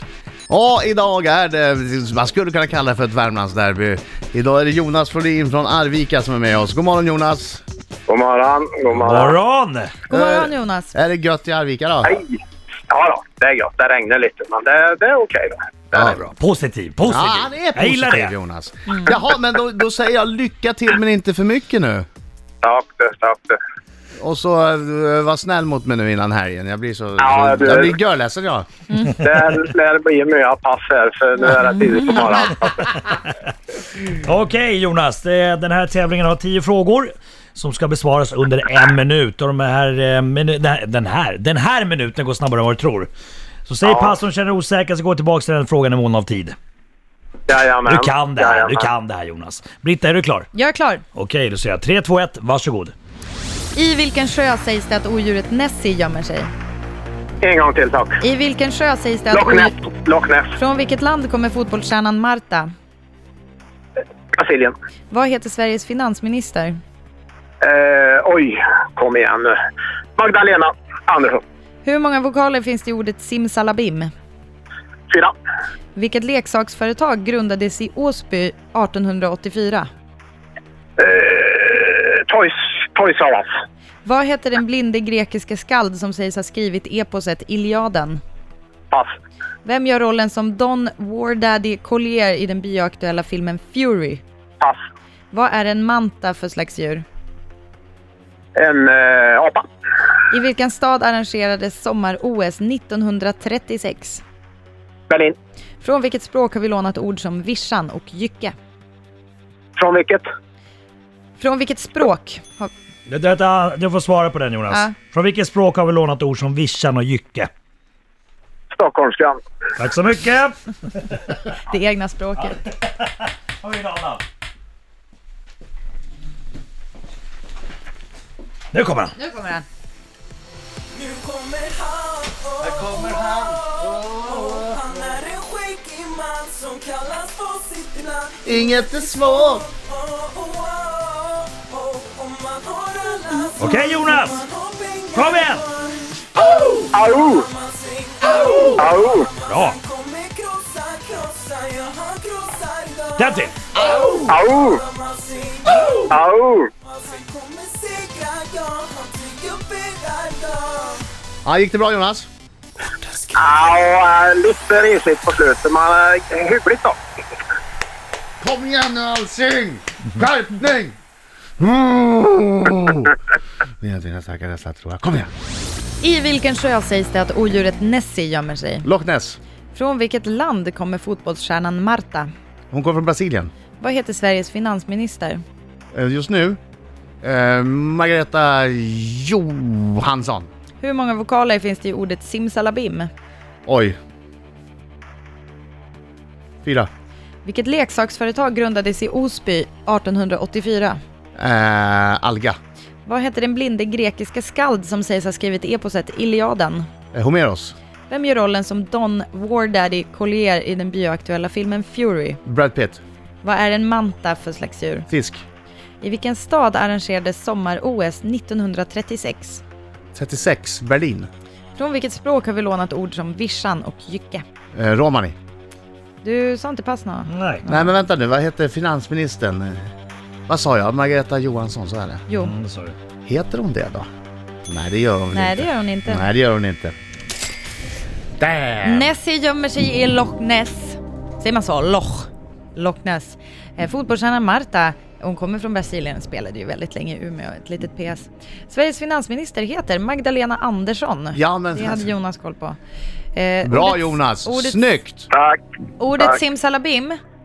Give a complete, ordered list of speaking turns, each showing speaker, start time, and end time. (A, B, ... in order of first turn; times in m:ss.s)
0:00.5-0:07.6 A
0:08.1-0:09.4 B
0:08.9-0:10.0 C
0:10.1-0:10.9 D
0:10.1-0:12.2 A
0:12.0-0:16.1 B
0:15.9-0:16.2 A
0:16.0-0:18.3 C
0:17.1-0:22.0 A
0:22.6-0:23.6 B
0:24.2-0:28.7 A
0:27.2-0:28.0 B
0:28.9-0:29.2 D
0:29.2-0:32.8 B
0:31.8-0:32.5 D
0:32.9-0:33.3 C
0:34.1-0:43.1 C
0:43.7-0:46.6 C
0:43.8-0:44.2 B
0:47.5-0:48.9 B
0:47.9-0:50.5 C
0:50.5-0:51.0 D
0:51.2-0:52.9 C
0:53.8-0:56.5 D
0:57.4-0:58.2 B
0:58.2-0:59.7 D
0:59.3-1:00.6 B
1:00.6-1:02.7 D
1:04.3-1:04.7 B
1:05.1-1:06.8 D
1:07.6-1:09.6 B
1:10.2-1:11.4 B
1:11.8-1:14.1 D
1:16.0-1:19.9 D
1:21.0-1:23.5 B
1:24.0-1:28.2 D
1:29.6-1:34.2 D
1:35.3-1:37.0 D
1:38.6-1:39.6 B
1:40.3-1:44.2 D
1:45.1-1:45.4 B
1:45.8-1:48.5 D
1:49.8-1:50.2 B
1:51.4-1:52.7 D
1:53.1-1:57.5 C
1:54.7-1:55.0 D
1:58.7-1:59.4 B
1:59.8-2:01.3 C
2:01.6-2:02.7 D
2:02.5-2:04.2 C
2:08.7-2:09.1 C
2:09.1-2:09.7 D
2:10.9-2:36.1 E
2:12.6-2:14.8 A
2:18.4-2:19.7 A
2:23.6-2:24.4 C
2:25.1-2:25.6 C
2:26.9-2:27.4 B
2:28.3-2:28.7 A
2:28.8-2:29.3 B
2:29.4-2:29.8 C
2:33.2-2:33.7 C
2:33.8-2:34.3 A
2:34.2-2:34.8 B
2:36.1-2:36.7 B
2:36.8-2:41.0 E
2:41.4-2:42.3 A
2:43.3-2:47.0 B
2:48.4-2:51.0 A
2:51.6-2:53.2 A
2:53.8-2:55.3 A
2:56.0-2:58.9 D
2:58.8-2:59.4 A
2:59.7-3:02.3 D
3:02.7-3:03.5 A
3:03.8-3:05.4 D
3:05.9-3:06.6 A
3:07.2-3:10.5 A
3:10.8-3:13.1 D
3:13.7-3:14.0 A
3:16.6-3:16.9 A
3:17.4-3:21.0 D
3:21.4-3:22.6 A
3:23.0-3:26.9 D
3:27.1-3:27.7 A
3:28.1-3:32.4 D
3:32.4-3:33.0 A
3:33.4-3:35.1 D
3:35.1-3:35.4 A
3:36.0-3:39.6 D
3:40.1-3:41.3 A
3:41.8-3:44.4 D
3:44.7-3:45.4 A
3:46.2-3:47.9 D
3:47.3-3:47.6 C
3:47.7-3:49.8 A
3:50.5-3:52.2 A
3:52.3-3:52.5 D
3:52.4-3:53.0 C
3:53.2-3:54.1 A
3:54.7-3:56.9 A
3:55.3-3:56.3 D
3:58.4-3:59.1 A
3:58.8-4:12.8 D
4:11.3-4:12.1 A
4:13.3-4:15.0 D
4:13.6-4:15.3 A
4:15.3-4:15.6 B
4:16.0-4:17.2 D